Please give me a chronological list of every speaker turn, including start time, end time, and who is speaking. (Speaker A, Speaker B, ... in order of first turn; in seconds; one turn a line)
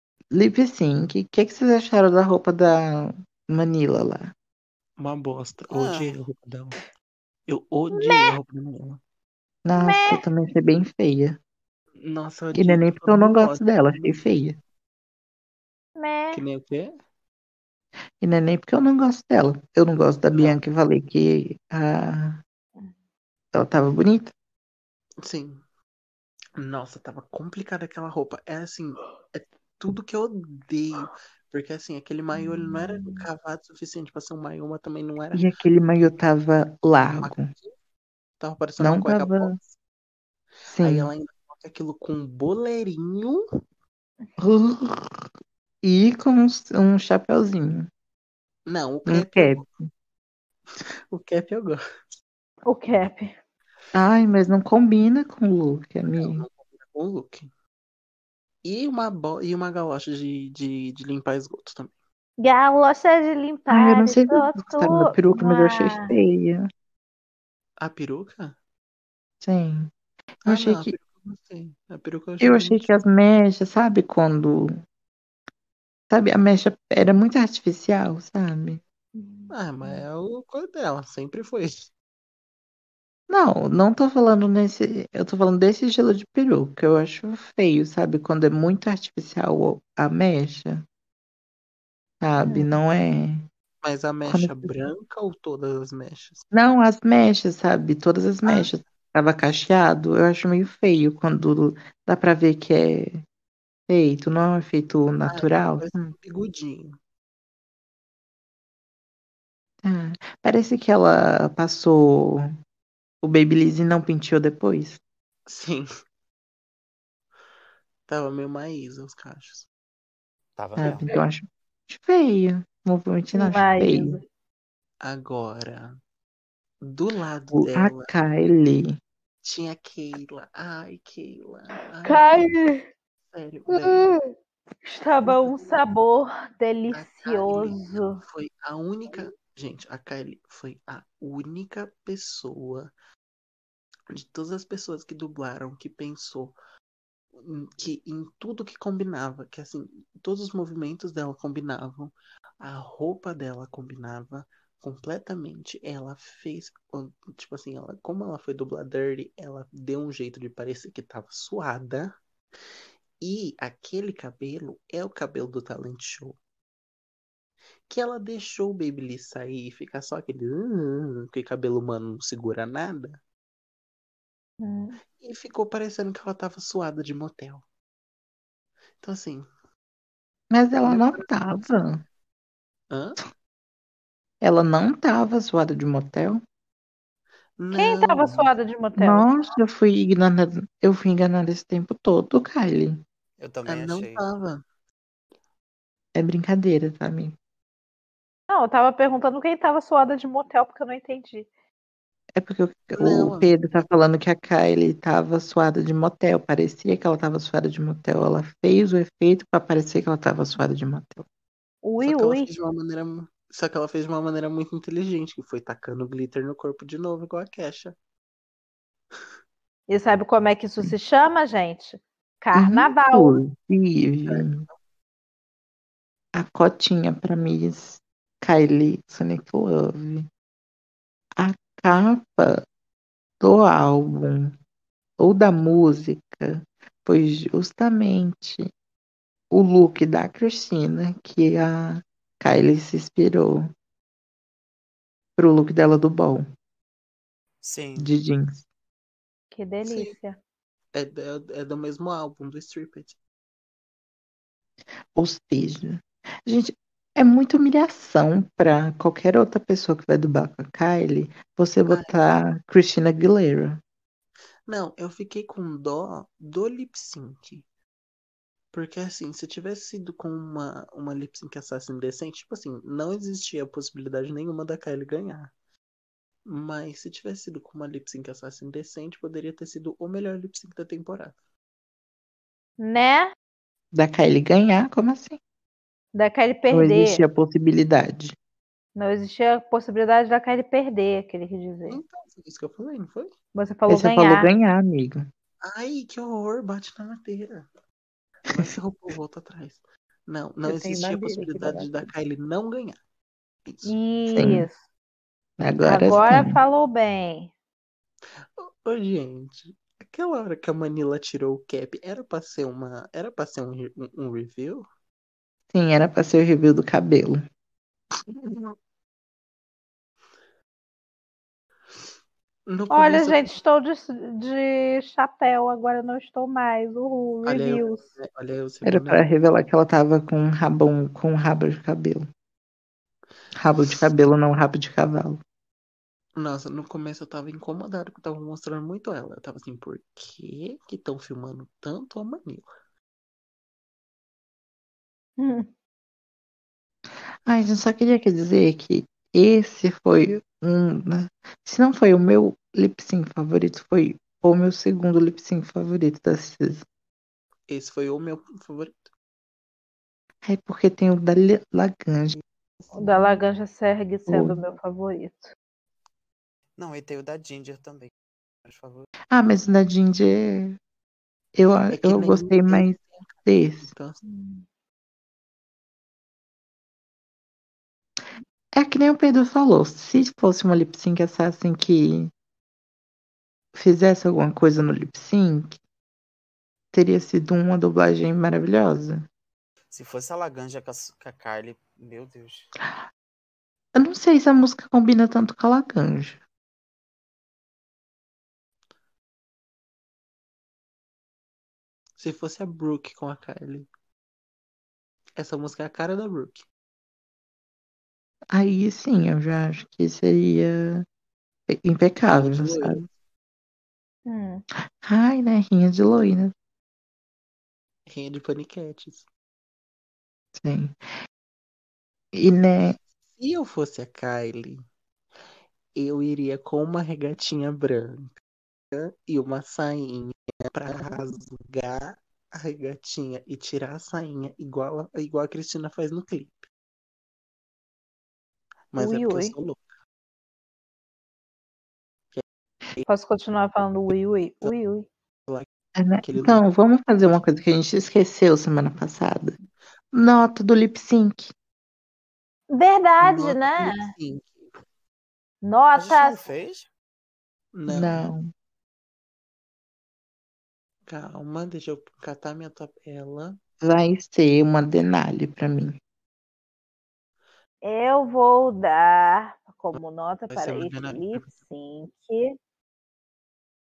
Speaker A: 0.3-4.3
Speaker B: 5.0-6.8
Speaker C: 5.7-6.1
Speaker B: 7.5-9.0
Speaker D: 7.9-8.3
Speaker A: 9.7-11.4
Speaker D: 9.7-10.2
Speaker B: 12.0-14.2
Speaker A: 12.6-14.6
Speaker D: 16.0-16.4
Speaker B: 16.3-16.9
Speaker A: 18.2-22.4
Speaker B: 20.3-20.6
Speaker A: 23.5-24.3
Speaker B: 25.2-25.6
Speaker B: 26.6-35.5
Speaker D: 32.4-33.3
Speaker A: 35.3-37.5
Speaker B: 37.1-37.7
Speaker B: 38.4-39.7
Speaker A: 38.8-39.6
Speaker A: 40.7-41.1
Speaker B: 40.7-43.4
Speaker A: 44.4-45.2
Speaker A: 45.8-47.9
Speaker B: 48.7-49.7
Speaker A: 49.1-49.9
Speaker B: 51.1-51.8
Speaker D: 52.7-53.4
Speaker A: 53.9-56.5
Speaker B: 56.2-57.5
Speaker B: 58.6-62.0
Speaker D: 62.4-66.1
Speaker A: 63.7-66.7
Speaker B: 67.8-68.6
Speaker A: 69.4-69.9
Speaker A: 70.4-70.9
Speaker B: 70.5-72.9
Speaker A: 72.4-74.8
Speaker A: 76.1-78.8
Speaker D: 79.2-80.0
Speaker B: 79.5-81.9
Speaker A: 83.3-90.8
Speaker A: 92.2-93.5
Speaker D: 92.5-92.8
Speaker B: 93.8-96.5
Speaker A: 94.3-94.7
Speaker A: 96.5-103.2
Speaker B: 98.5-98.7
Speaker A: 103.9-106.1
Speaker B: 105.3-107.0
Speaker A: 109.8-112.5
Speaker A: 113.2-115.0
Speaker B: 115.5-115.9
Speaker B: 118.1-119.7
Speaker C: 120.6-121.2
Speaker A: 120.8-124.2
Speaker D: 123.3-124.2
Speaker B: 125.0-126.0
Speaker B: 126.8-128.1
Speaker A: 127.5-129.0
Speaker B: 129.4-132.5
Speaker D: 132.0-132.9
Speaker B: 133.3-134.1
Speaker D: 133.7-134.3
Speaker D: 134.8-138.2
Speaker B: 135.2-135.8
Speaker B: 136.9-142.9
Speaker B: 144.1-146.6
Speaker B: 147.3-162.1
Speaker B: 163.2-166.4
Speaker B: 167.9-173.2
Speaker D: 174.6-175.0
Speaker B: 175.2-177.6
Speaker B: 179.0-179.5
Speaker A: 180.5-182.0
Speaker B: 180.8-181.3
Speaker B: 182.9-183.2
Speaker A: 184.4-186.4
Speaker B: 187.6-188.5
Speaker D: 187.7-189.3
Speaker A: 189.0-193.0
Speaker C: 193.4-194.2
Speaker B: 193.7-194.6
Speaker A: 196.2-197.3
Speaker D: 198.5-201.5
Speaker A: 202.4-211.3
Speaker B: 202.9-203.5
Speaker D: 211.8-212.5
Speaker B: 212.0-218.0
Speaker D: 219.9-223.4
Speaker A: 222.5-224.7
Speaker B: 224.2-224.8
Speaker A: 226.3-230.3
Speaker A: 231.4-232.6
Speaker A: 233.4-234.5
Speaker A: 235.2-238.7
Speaker A: 239.5-243.7
Speaker A: 245.4-246.4
Speaker C: 247.6-248.2
Speaker A: 248.0-248.7
Speaker D: 249.5-250.4
Speaker B: 249.8-250.2
Speaker B: 250.9-253.2
Speaker A: 255.2-263.8
Speaker B: 261.9-262.2
Speaker B: 264.7-267.6
Speaker B: 268.7-275.5
Speaker B: 276.5-281.4
Speaker D: 282.8-283.3
Speaker A: 283.9-285.4
Speaker D: 286.1-287.2
Speaker A: 286.7-288.4
Speaker D: 289.0-292.0
Speaker B: 291.9-293.3
Speaker D: 293.5-294.5
Speaker A: 293.9-295.3
Speaker B: 295.6-297.7
Speaker B: 298.5-303.0
Speaker A: 300.7-302.1
Speaker B: 303.7-303.9
Speaker D: 303.9-304.8
Speaker A: 304.3-304.7
Speaker A: 305.6-306.6
Speaker D: 305.8-307.5
Speaker B: 306.1-306.4
Speaker B: 308.6-314.9
Speaker A: 315.7-317.4
Speaker B: 322.7-323.4
Speaker D: 322.9-328.0
Speaker B: 327.4-329.3
Speaker A: 328.9-332.3
Speaker A: 333.6-335.4
Speaker B: 336.4-342.7
Speaker D: 345.4-345.7
Speaker A: 347.5-356.8
Speaker B: 357.7-359.1
Speaker A: 360.4-362.4
Speaker B: 362.3-363.4
Speaker D: 362.9-365.5
Speaker A: 364.3-364.6
Speaker C: 366.8-368.1
Speaker C: 368.6-369.1
Speaker A: 369.3-370.8
Speaker A: 371.6-373.9
Speaker B: 371.9-374.2
Speaker D: 374.2-374.7
Speaker A: 378.8-382.3
Speaker A: 383.7-385.8
Speaker A: 386.9-389.2
Speaker C: 389.9-392.7
Speaker A: 393.9-396.4
Speaker B: 402.2-403.9
Speaker B: 405.4-406.7
Speaker A: 408.5-411.1
Speaker A: 411.7-413.1
Speaker B: 412.3-413.1
Speaker D: 414.3-414.6
Speaker A: 415.0-416.5
Speaker B: 418.1-419.3
Speaker A: 420.6-421.0
Speaker A: 422.3-423.0
Speaker B: 423.3-424.9
Speaker B: 426.0-428.3
Speaker B: 428.9-436.7
Speaker B: 438.9-439.9
Speaker D: 439.0-439.5
Speaker B: 442.3-443.1
Speaker D: 443.1-445.1
Speaker A: 446.0-449.6
Speaker B: 446.2-446.6
Speaker A: 450.1-451.5
Speaker D: 452.7-454.1
Speaker B: 453.2-454.7
Speaker D: 455.6-456.5
Speaker C: 455.9-456.9
Speaker B: 457.7-458.3
Speaker A: 457.9-458.5
Speaker B: 461.1-463.6
Speaker A: 463.8-466.0
Speaker D: 467.8-472.6
Speaker B: 470.5-471.5